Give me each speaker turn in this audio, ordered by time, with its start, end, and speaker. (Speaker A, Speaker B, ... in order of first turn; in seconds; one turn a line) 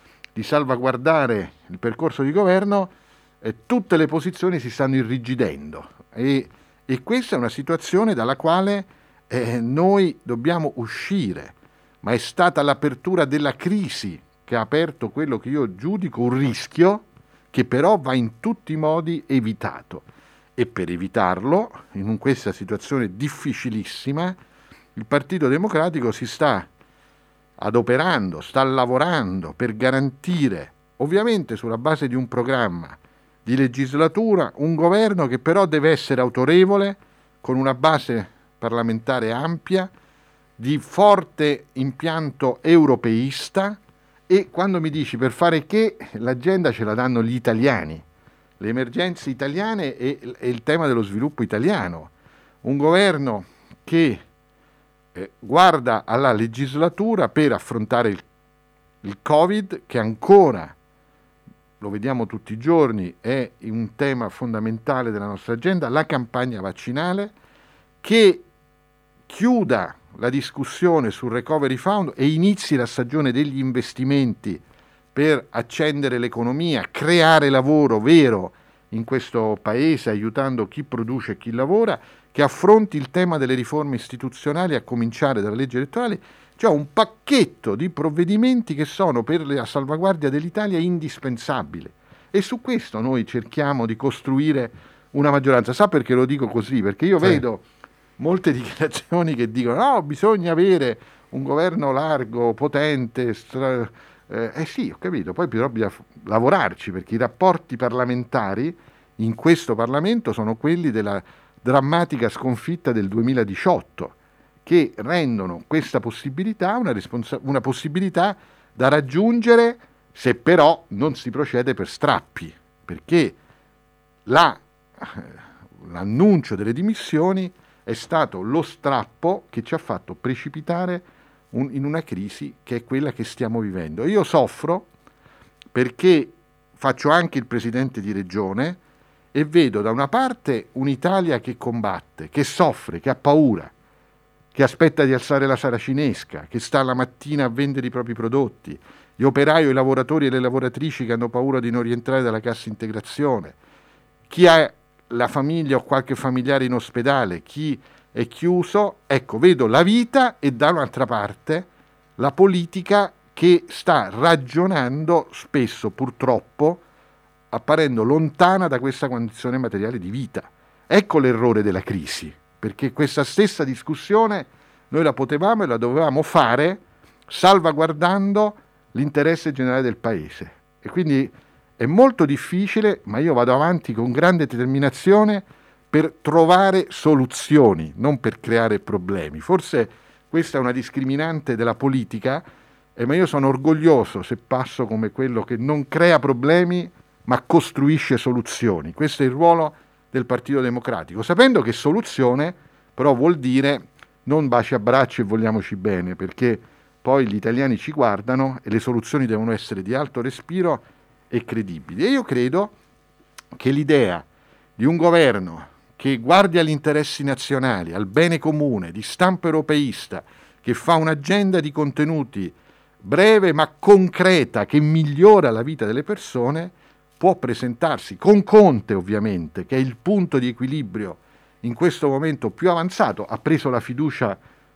Speaker A: 0.3-24.4
Speaker A: 24.9-26.7
Speaker A: 27.6-39.9
Speaker A: 40.6-48.0
Speaker A: 48.6-54.2
Speaker A: 55.1-58.2
Speaker A: 59.0-60.7
Speaker A: 61.8-67.3
Speaker A: 68.0-68.5
Speaker A: 69.3-74.6
Speaker A: 75.1-97.7
Speaker A: 98.2-123.4
Speaker A: 124.2-134.9
Speaker A: 135.7-138.8
Speaker A: 139.3-143.7
Speaker A: 144.5-153.6
Speaker A: 154.3-166.8
Speaker A: 167.5-192.4
Speaker A: 192.9-212.7
Speaker A: 213.6-214.2
Speaker A: 214.8-234.4